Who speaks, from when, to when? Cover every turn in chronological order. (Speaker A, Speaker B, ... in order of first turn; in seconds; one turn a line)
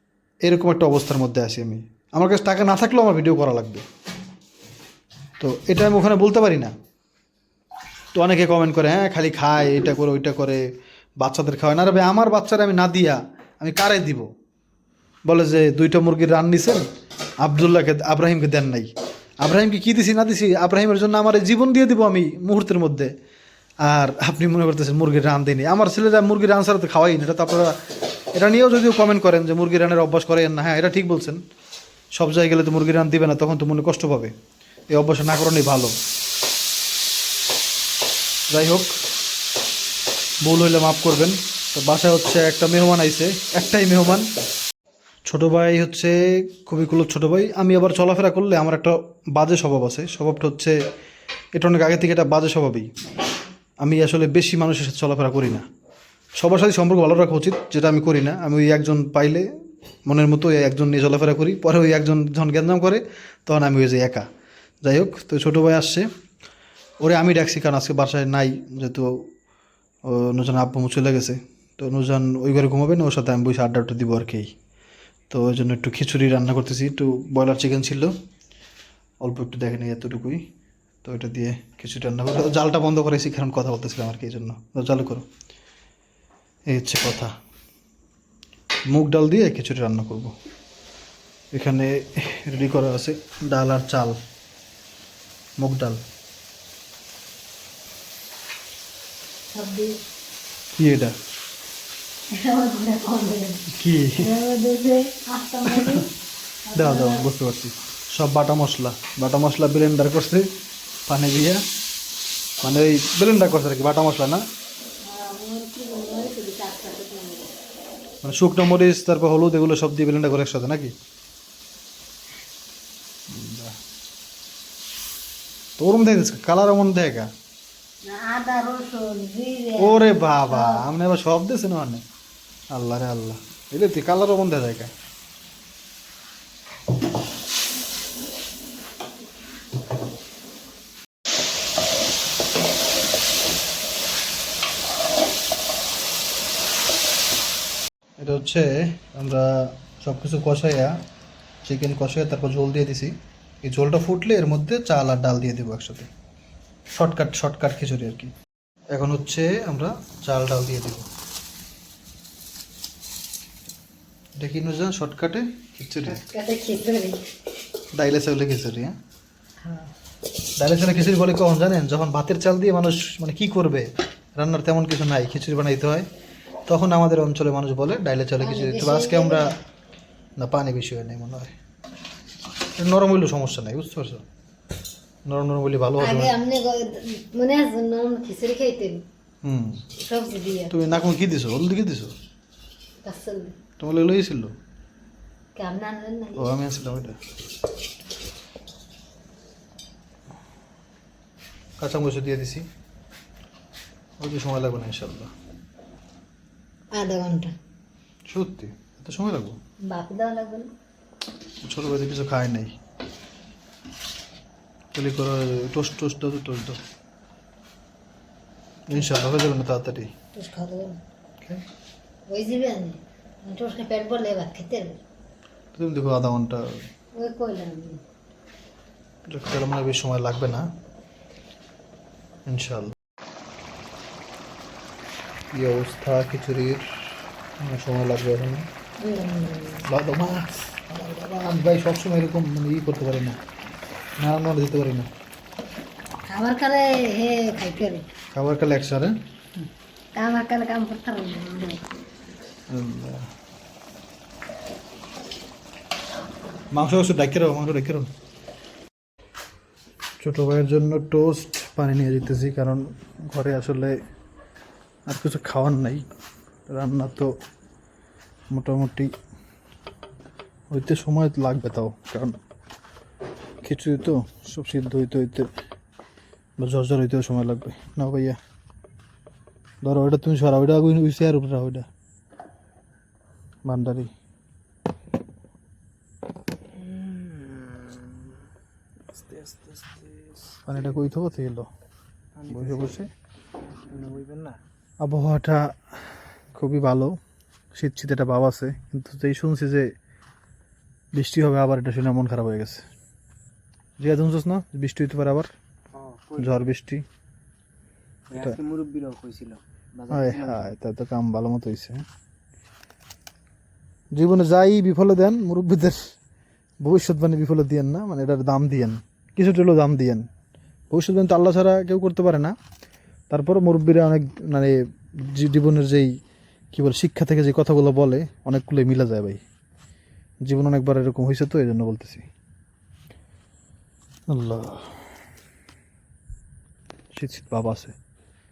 Speaker A: 0.4-3.9
Speaker A: 5.4-6.7
Speaker A: 8.2-10.6
Speaker A: 11.2-14.3
Speaker A: 15.2-16.9
Speaker A: 17.4-23.1
Speaker A: 23.8-27.8
Speaker A: 28.3-31.4
Speaker A: 32.1-34.3
Speaker A: 34.9-36.0
Speaker A: 38.5-38.9
Speaker A: 40.4-44.3
Speaker A: 45.3-50.8
Speaker A: 51.5-52.9
Speaker A: 53.8-55.6
Speaker A: 56.4-59.5
Speaker A: 60.1-64.2
Speaker A: 64.8-66.1
Speaker A: 67.0-69.3
Speaker A: 70.1-74.5
Speaker A: 75.3-78.1
Speaker A: 79.2-80.4
Speaker A: 81.0-85.3
Speaker A: 86.7-87.3
Speaker A: 88.9-90.3
Speaker A: 91.5-94.2
Speaker A: 95.6-96.0
Speaker B: 99.5-100.0
Speaker A: 100.8-101.1
Speaker B: 102.3-106.1
Speaker A: 103.7-104.3
Speaker A: 105.7-106.0
Speaker B: 106.7-107.3
Speaker A: 106.7-110.5
Speaker A: 111.1-111.7
Speaker A: 112.6-114.4
Speaker B: 115.0-117.5
Speaker A: 118.2-120.9
Speaker A: 123.3-123.7
Speaker A: 125.8-127.3
Speaker B: 128.0-130.9
Speaker A: 129.8-132.0
Speaker A: 132.7-134.9
Speaker A: 148.2-151.0
Speaker A: 151.6-156.1
Speaker A: 156.9-158.3
Speaker A: 158.9-161.1
Speaker A: 164.4-166.2
Speaker B: 166.1-167.2
Speaker A: 167.9-168.9
Speaker B: 169.6-169.9
Speaker A: 170.6-176.1
Speaker A: 176.7-179.6
Speaker B: 178.4-179.6
Speaker A: 180.4-181.5
Speaker A: 182.8-184.2
Speaker A: 185.3-186.3
Speaker B: 186.0-189.1
Speaker A: 189.4-189.9
Speaker B: 190.0-190.7
Speaker A: 190.7-192.2
Speaker B: 193.0-193.6
Speaker A: 193.8-194.6
Speaker B: 195.6-196.6
Speaker A: 196.4-197.2
Speaker A: 201.8-202.7
Speaker A: 204.2-205.3
Speaker B: 206.9-207.6
Speaker A: 208.3-209.6
Speaker B: 209.9-210.7
Speaker A: 211.6-212.8
Speaker A: 214.9-216.8
Speaker A: 218.9-220.1
Speaker B: 220.3-221.0
Speaker B: 222.3-225.0
Speaker A: 225.8-226.8
Speaker B: 227.2-228.0
Speaker A: 229.3-230.7
Speaker A: 232.5-232.9
Speaker A: 235.5-236.8
Speaker A: 237.6-238.7
Speaker B: 239.0-239.9
Speaker A: 239.8-243.4
Speaker A: 244.2-245.1
Speaker B: 246.3-248.1
Speaker A: 248.3-249.2
Speaker B: 250.2-251.9
Speaker A: 252.7-253.3
Speaker A: 256.7-258.1
Speaker A: 260.2-264.0
Speaker A: 265.1-266.1
Speaker A: 266.7-267.3
Speaker A: 268.5-269.1
Speaker A: 270.7-272.4
Speaker A: 273.6-275.5
Speaker A: 276.6-278.4
Speaker A: 279.8-281.9
Speaker A: 283.6-284.1
Speaker C: 286.8-288.3
Speaker C: 289.1-290.6
Speaker A: 290.7-291.7
Speaker C: 292.4-293.0
Speaker A: 292.5-293.1
Speaker C: 293.9-294.6
Speaker A: 295.0-295.9
Speaker A: 296.5-297.2
Speaker A: 297.7-299.9
Speaker A: 301.1-302.9
Speaker A: 304.0-305.5
Speaker C: 305.9-306.6
Speaker A: 306.4-307.1
Speaker C: 308.3-310.7
Speaker A: 310.1-312.0
Speaker A: 314.1-316.1
Speaker A: 316.8-320.3
Speaker A: 320.9-322.6
Speaker A: 323.3-326.1
Speaker A: 326.7-329.4
Speaker A: 330.4-332.3
Speaker A: 334.3-334.9
Speaker A: 337.1-337.9